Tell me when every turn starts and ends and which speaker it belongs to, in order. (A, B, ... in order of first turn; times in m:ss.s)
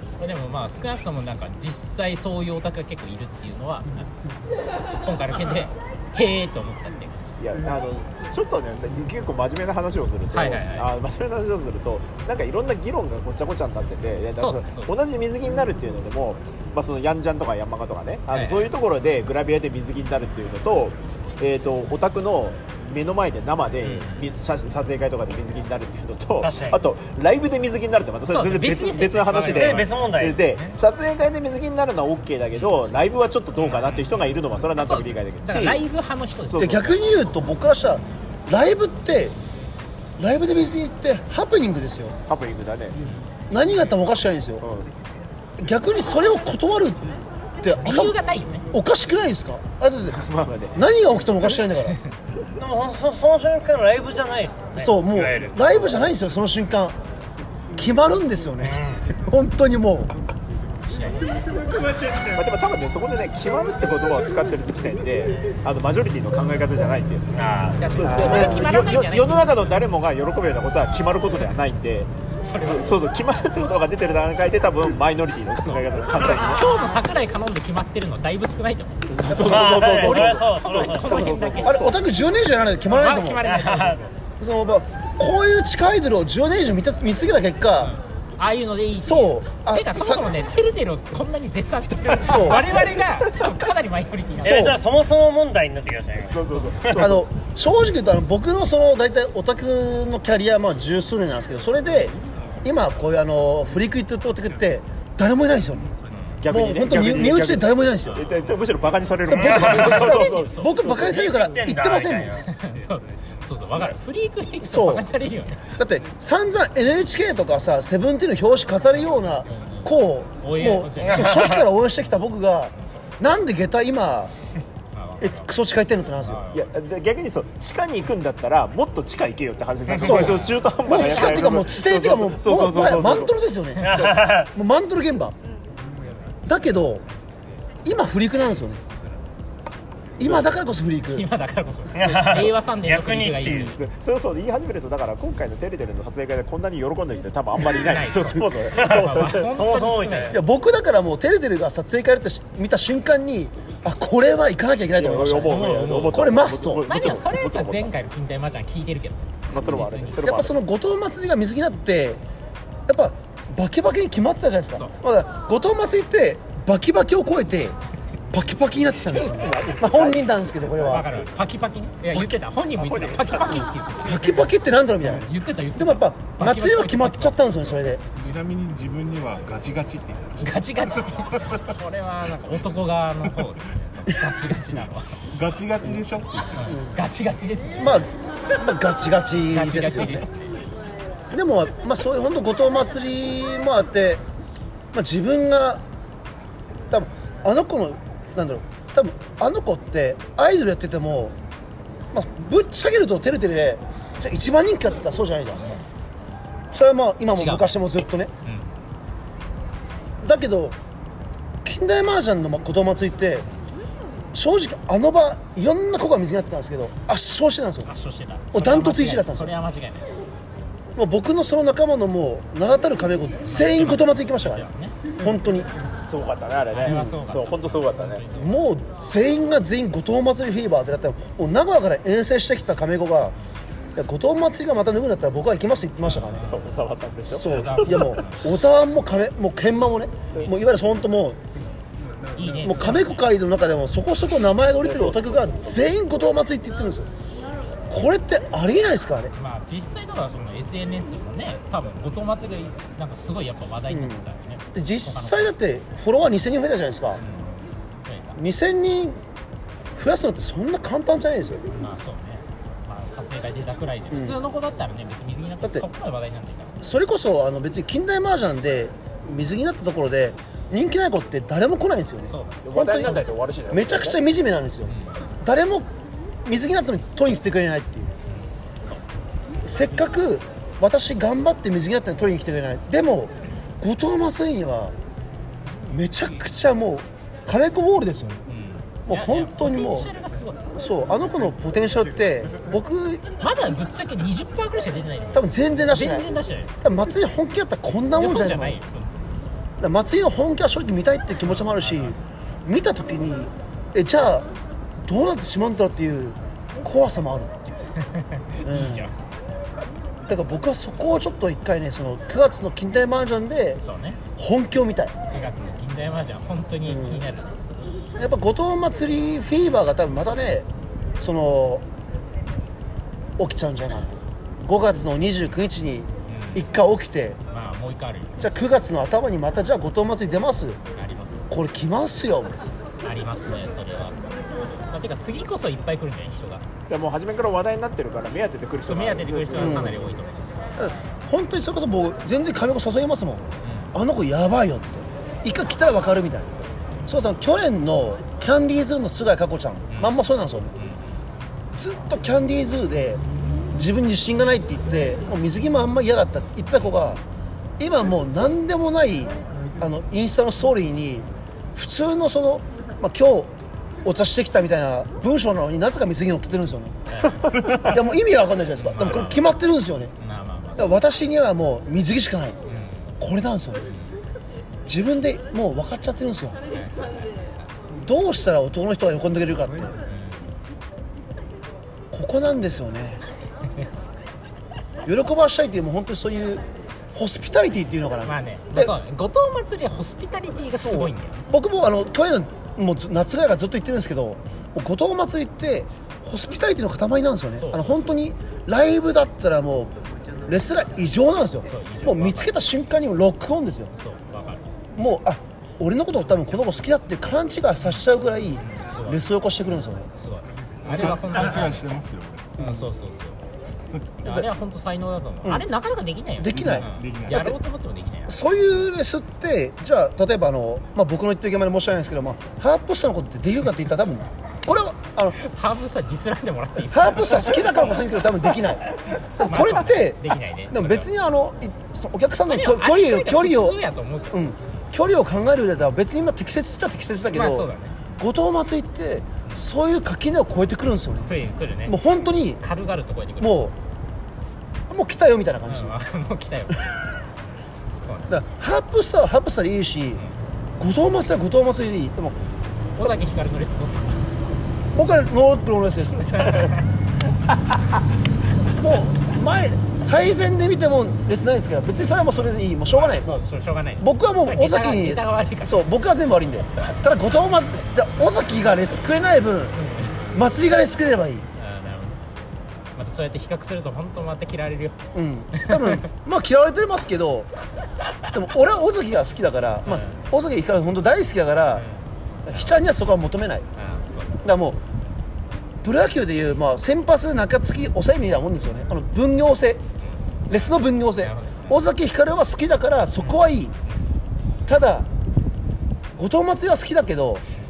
0:00.2-0:04.2 A
0:05.0-0:07.4 A
0:07.4-0:35.8 B
0:10.3-0:10.9 A
0:14.3-0:14.9 A
0:18.3-0:18.7 A
0:23.8-0:24.3 A
0:26.4-0:26.8 C
0:28.3-0:30.0 A
0:29.4-0:30.5 C
0:33.6-0:34.2 A
0:34.8-0:37.0 A
0:36.5-0:36.8 B
0:36.6-0:39.4 D
0:40.2-0:42.2 D
0:42.3-0:43.0 B
0:43.5-0:44.6 D
0:44.6-0:44.9 B
0:45.6-0:47.1 D
0:47.6-0:48.2 D
0:47.8-0:48.7 A
0:48.7-0:50.2 D
0:50.1-0:50.8 B
0:50.7-0:52.0 D
0:52.6-0:55.7 C
0:54.7-0:57.0 D
0:57.8-1:00.1 D
1:00.9-1:01.6 A
1:02.3-1:07.3 B
1:07.3-1:08.1 C
1:07.8-1:09.8 A
1:07.9-1:16.7 B
1:08.0-1:08.7 D
1:12.4-1:13.0 A
1:16.4-1:22.2 A
1:19.1-1:22.0 B
1:19.3-1:20.3 D
1:19.4-1:21.6 C
1:21.6-1:23.4 D
1:22.9-1:24.1 A
1:23.4-1:24.0 C
1:24.4-1:27.9 D
1:27.8-1:34.7 A
1:28.9-1:30.3 D
1:32.1-1:32.8 D
1:34.4-1:34.8 D
1:34.4-1:37.0 C
1:36.3-1:37.2 B
1:36.9-1:45.9 D
1:46.1-1:46.4 A
1:46.4-1:50.9 B
1:46.4-1:48.3 D
1:49.2-1:52.4 D
1:49.3-1:50.1 C
1:49.6-1:50.8 A
1:50.8-1:52.5 C
1:52.4-1:55.7 A
1:54.6-1:55.1 D
1:55.8-2:04.3 D
1:59.5-2:01.5 A
2:01.0-2:01.6 C
2:04.9-2:05.5 A
2:05.2-2:06.4 D
2:06.2-2:06.7 A
2:06.5-2:13.3 B
2:09.9-2:10.3 C
2:10.0-2:15.4 D
2:10.0-2:11.4 A
2:13.8-2:14.5 C
2:16.4-2:17.0 D
2:17.8-2:18.8 D
2:20.2-2:21.3 D
2:20.2-2:20.5 B
2:21.1-2:23.8 A
2:21.9-2:23.8 C
2:23.8-2:29.5 B
2:27.6-2:30.4 A
2:28.8-2:30.4 C
2:30.3-2:36.8 D
2:35.0-2:37.9 B
2:35.4-2:36.3 A
2:36.8-2:40.2 A
2:39.5-2:40.6 B
2:40.2-2:42.2 D
2:42.9-2:47.8 D
2:44.7-2:45.0 A
2:48.3-2:51.1 D
2:49.0-2:50.2 B
2:50.8-2:57.5 A
2:52.1-2:52.4 D
2:52.7-2:53.7 B
2:54.0-2:58.0 D
2:58.1-3:01.7 E
3:00.4-3:05.2 A
3:05.3-3:06.8 E
3:06.5-3:08.1 A
3:07.8-3:10.3 D
3:09.5-3:10.6 A
3:11.3-3:14.2 D
3:14.9-3:15.8 D
3:16.9-3:21.4 D
3:22.1-3:25.8 D
3:26.7-3:28.3 D
3:27.3-3:27.7 A
3:30.2-3:30.8 D
3:31.6-3:33.4 D
3:34.3-3:37.9 D
3:37.8-3:40.1 A
3:38.5-3:39.5 D
3:40.9-3:45.7 D
3:43.4-3:45.0 A
3:46.0-3:48.2 B
3:46.7-3:48.6 A
3:46.8-3:47.1 D
3:48.3-3:53.4 D
3:54.0-3:56.5 D
3:56.0-3:56.7 A
3:56.4-3:58.2 B
3:57.2-4:01.4 D
3:57.4-3:58.5 A
4:02.4-4:03.3 A
4:02.4-4:07.1 D
4:04.8-4:05.8 B
4:07.9-4:09.3 D
4:09.3-4:15.5 A
4:13.9-4:14.2 D
4:14.7-4:17.2 D
4:17.2-4:18.4 A
4:18.4-4:19.2 D
4:19.9-4:21.6 D
4:21.7-4:26.8 A
4:24.1-4:24.4 D
4:25.6-4:25.9 D
4:26.8-4:35.9 D
4:32.2-4:33.3 A
4:32.6-4:34.2 B
4:34.8-4:35.3 A
4:36.4-4:38.1 D
4:38.3-4:39.0 A
4:39.6-4:44.9 D
4:45.9-4:48.4 D
4:48.5-4:50.6 A
4:49.1-4:50.1 D
4:50.8-4:53.3 D
4:53.4-4:56.7 A
4:55.3-4:56.3 D
4:56.8-4:58.8 D
4:58.1-4:59.4 A
4:59.8-5:04.5 D
5:01.5-5:02.2 A
5:05.0-5:07.8 D
5:08.0-5:09.1 A
5:08.6-5:09.1 D
5:10.3-5:13.8 D
5:13.8-5:14.2 A
5:14.4-5:15.1 D
5:15.3-5:17.6 A
5:16.8-5:17.2 D
5:18.2-5:20.7 D
5:21.2-5:21.8 D
5:23.4-5:27.4 D
5:26.3-5:26.6 A
5:27.5-5:28.5 A
5:28.4-5:30.8 D
5:30.9-5:31.5 A
5:31.5-5:32.6 D
5:33.0-5:36.6 A
5:36.9-5:40.0 B
5:38.8-5:41.0 A
5:39.5-5:40.0 D
5:40.8-5:46.5 D
5:43.6-5:43.9 A
5:47.1-5:50.7 D
5:49.9-5:50.2 A
5:50.8-5:51.2 A
5:51.7-5:57.2 D
5:57.8-6:03.5 D
6:04.0-6:10.1 D
6:07.1-6:07.8 A
6:08.8-6:09.5 A
6:10.2-6:11.0 A
6:10.8-6:12.6 D
6:12.6-6:13.1 A
6:13.2-6:13.9 D
6:13.9-6:14.1 A
6:14.8-6:16.6 D
6:16.7-6:17.6 A
6:17.9-6:19.9 D
6:20.0-6:20.6 A
6:22.1-6:23.2 D
6:25.0-6:26.6 D
6:27.1-6:28.9 D
6:28.2-6:31.5 A
6:30.7-6:43.9 D
6:37.5-6:38.1 A
6:41.6-6:42.6 A
6:44.0-6:44.7 A
6:44.9-6:50.1 D
6:48.6-6:49.3 A
6:50.1-6:51.9 A
6:50.9-6:52.5 E
6:52.6-6:53.4 A
6:52.6-6:52.9 D
6:54.2-6:58.5 A
6:56.4-6:57.6 D
6:56.5-6:57.5 E
6:58.3-7:05.4 D
7:05.3-7:07.9 A
7:06.8-7:08.8 D
7:09.4-7:13.8 D
7:09.4-7:11.1 A
7:12.5-7:14.4 A
7:14.3-7:21.3 D
7:17.3-7:18.0 A
7:21.1-7:22.0 A
7:21.8-7:22.6 D
7:22.6-7:23.7 A
7:23.4-7:23.7 D
7:24.9-7:26.0 D
7:25.7-7:26.9 A
7:28.0-7:28.4 A
7:28.3-7:30.2 D
7:30.8-7:32.4 D
7:33.0-7:34.2 A
7:34.9-7:36.8 D
7:36.5-7:36.7 A
7:38.8-7:43.4 D
7:42.0-7:42.3 A
7:42.8-7:45.8 A
7:44.0-7:49.8 D
7:49.7-7:50.2 A
7:50.3-7:51.4 D
7:51.5-7:52.2 A
7:53.0-7:55.0 A
7:55.1-7:57.5 D
7:55.5-7:56.0 A
7:58.3-8:01.8 D
7:59.8-8:00.2 A
8:01.7-8:02.8 A
8:02.4-8:03.6 D
8:03.8-8:04.4 A
8:04.4-8:04.8 D
8:05.8-8:09.8 D
8:10.0-8:11.8 A
8:10.5-8:13.7 D
8:13.2-8:13.9 A
8:14.7-8:15.1 D
8:16.1-8:17.4 D